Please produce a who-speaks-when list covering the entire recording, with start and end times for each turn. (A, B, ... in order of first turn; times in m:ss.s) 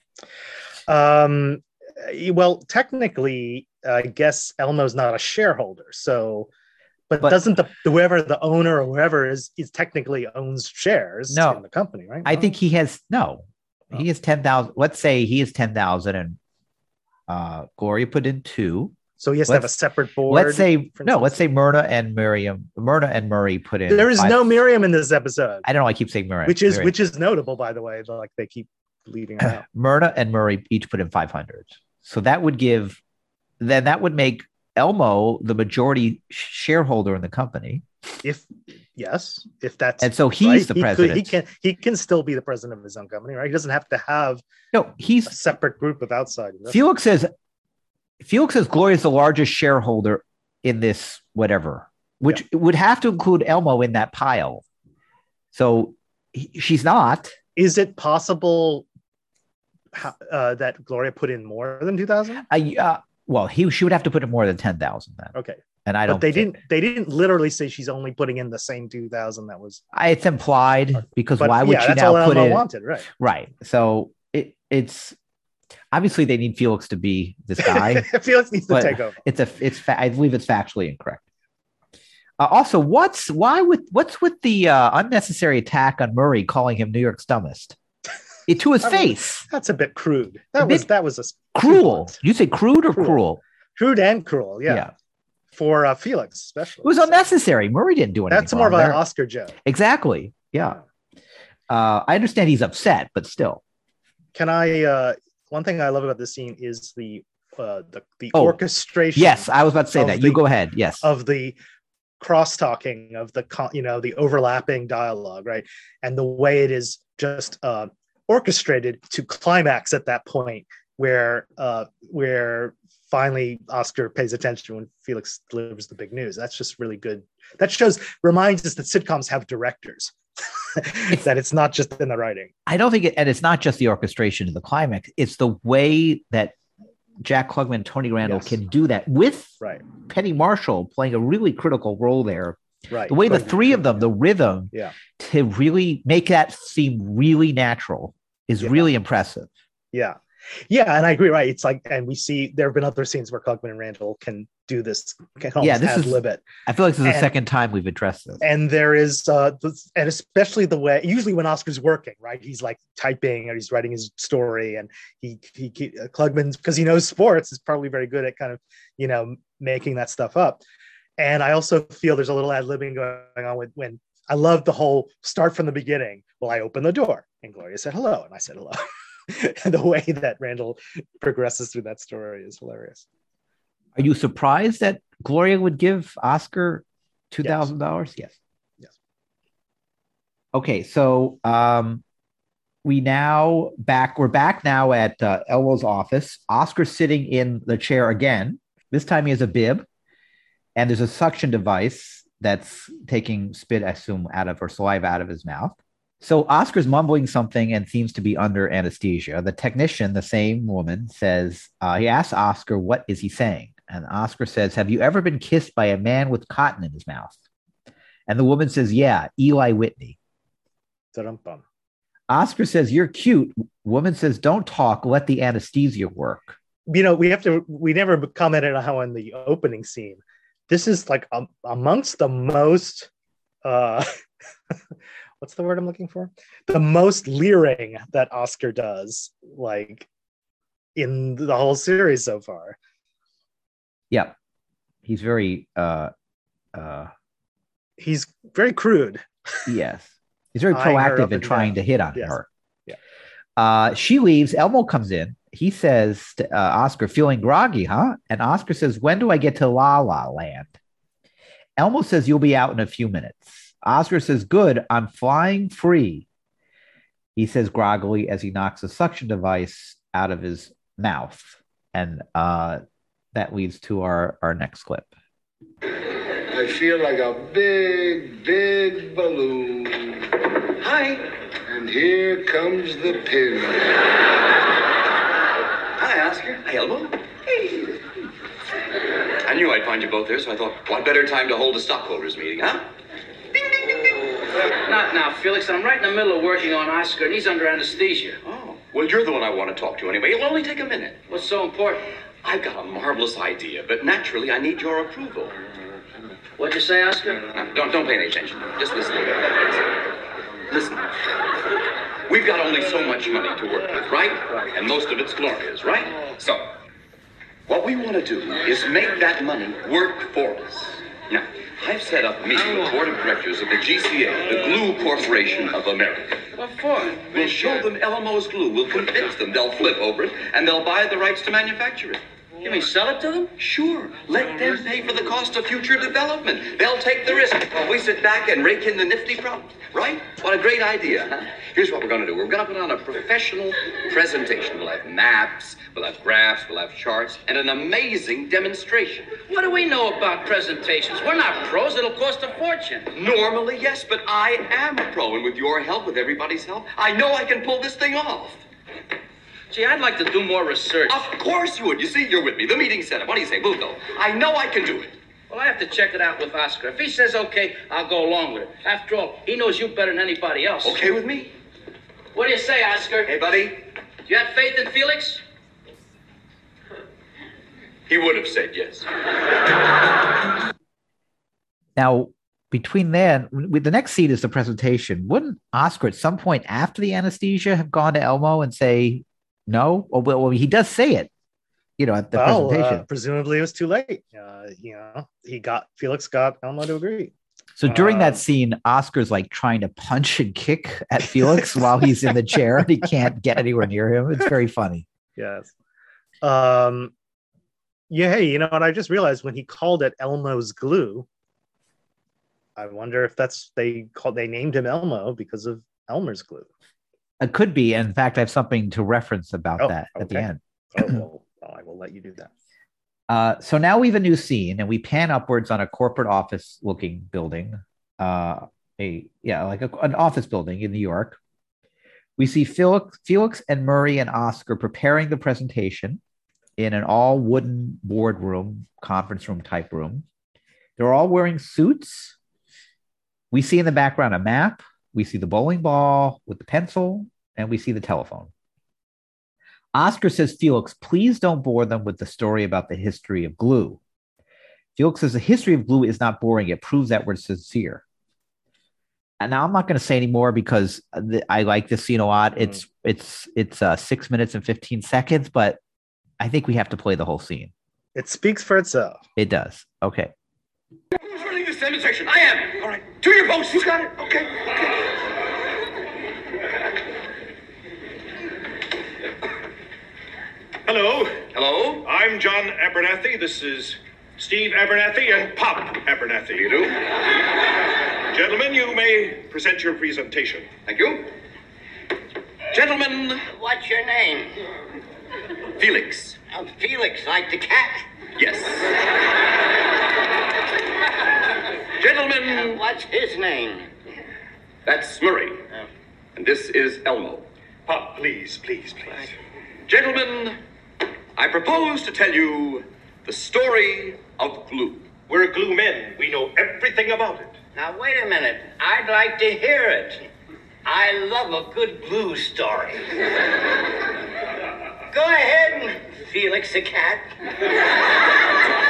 0:00.9-0:06.5 A
0:07.1-0:12.5 A
0:11.3-0:11.6 B
0:12.2-0:16.4 B
0:17.3-0:19.0 B
0:19.2-0:21.4 A
0:20.2-0:24.6 B
0:23.9-0:25.6 A
0:25.6-0:26.9 B
0:26.4-0:29.6 A
0:29.4-0:33.0 B
0:33.6-0:37.8 B
0:38.2-0:44.4 A
0:40.0-0:41.4 B
0:44.7-0:45.3 B
0:45.3-0:46.8 A
0:46.7-0:47.3 B
0:48.2-0:54.6 B
0:55.5-0:57.3 B
0:57.6-0:58.8 A
0:59.9-1:02.4 A
1:02.5-1:05.3 B
1:05.3-1:09.8 A
1:05.8-1:06.6 B
1:09.9-1:15.2 B
1:11.4-1:13.1 A
1:15.9-1:18.1 B
1:17.6-1:19.2 A
1:18.7-1:21.2 B
1:22.4-1:27.8 B
1:28.5-1:29.4 B
1:28.8-1:32.2 A
1:30.6-1:30.9 B
1:31.5-1:33.4 B
1:32.9-1:33.2 A
1:33.8-1:34.9 A
1:35.5-1:37.2 A
1:36.8-1:39.0 B
1:38.3-1:39.5 A
1:39.6-1:40.8 B
1:41.7-1:43.6 B
1:44.3-1:50.4 A
1:48.3-1:48.6 B
1:49.1-1:51.0 B
1:51.0-1:51.6 A
1:52.2-2:12.5 A
2:12.7-2:16.5 B
2:17.2-2:29.5 B
2:18.2-2:18.6 A
2:22.9-2:24.1 A
2:28.6-2:28.9 A
2:29.9-2:36.4 A
2:35.6-2:38.4 B
2:37.0-2:37.3 A
2:38.4-2:50.6 A
2:51.2-3:03.0 A
3:03.9-3:08.4 B
3:07.4-3:07.7 A
3:10.5-3:12.0 B
3:12.8-3:19.8 B
3:20.8-3:37.4 B
3:38.3-3:40.2 B
3:41.1-3:41.6 A
3:42.3-3:46.6 B
3:46.9-3:53.1 A
3:53.6-3:54.1 A
3:55.4-4:00.1 A
4:01.0-4:02.8 A
4:05.0-4:06.1 B
4:06.7-4:07.1 B
4:08.0-4:09.2 A
4:09.6-4:12.4 B
4:10.7-4:13.0 A
4:13.6-4:20.7 B
4:21.8-4:26.2 B
4:27.4-4:32.8 B
4:33.3-4:35.1 B
4:36.5-4:40.3 C
4:40.8-4:41.2 D
4:41.7-4:43.9 C
4:46.0-4:47.2 D
4:49.4-4:52.9 D
4:54.8-4:58.4 E
4:58.4-5:01.2 D
5:01.3-5:02.0 E
5:02.4-5:05.5 D
5:06.6-5:07.5 E
5:07.5-5:09.7 D
5:10.7-5:11.1 D
5:12.3-5:16.6 D
5:17.7-5:26.5 D
5:26.6-5:27.3 E
5:27.1-5:32.8 D
5:32.6-5:33.5 E
5:33.6-5:49.3 D
5:49.4-5:53.1 E
5:53.1-5:58.6 D
5:59.7-6:01.2 E
6:01.1-6:05.2 D
6:05.5-6:11.0 E
6:10.8-6:11.5 D
6:12.3-6:13.3 E
6:13.2-6:13.8 D
6:14.2-6:15.4 E
6:18.1-6:19.1 D
6:22.0-6:31.3 B
6:32.0-6:33.0 B
6:32.3-6:37.3 A
6:37.8-6:45.0 B
6:37.9-6:38.4 A
6:45.4-6:45.7 A
6:46.4-6:47.1 A
6:48.1-6:51.3 A
6:52.8-6:56.7 A
6:57.4-7:01.2 B
6:59.8-7:02.5 A
7:03.3-7:11.4 B
7:12.4-7:16.2 B
7:16.8-7:20.2 B
7:21.0-7:22.4 B
7:23.5-7:28.5 B
7:29.9-7:34.0 B
7:35.0-7:38.0 B
7:39.4-7:45.8 B
7:46.4-7:47.7 B
7:48.2-7:49.2 A
7:49.4-7:50.3 B
7:51.2-7:54.1 D
7:54.2-7:54.4 F
8:00.8-8:01.4 F
8:01.5-8:02.1 D
8:02.0-8:06.8 F
8:06.5-8:07.0 D
8:08.3-8:10.7 F
8:10.9-8:11.3 D
8:12.7-8:13.4 D
8:13.5-8:14.5 G
8:15.8-8:16.4 D
8:16.5-8:18.1 G
8:18.4-8:18.9 D
8:22.0-8:22.3 D
8:22.4-8:23.9 G
8:24.8-8:25.6 D
8:26.4-8:27.5 D
8:27.9-8:29.3 F
8:29.9-8:30.6 D
8:31.4-8:35.1 D
8:35.3-8:37.5 F
8:37.7-8:40.2 G
8:40.8-8:43.0 G
8:45.1-8:47.3 G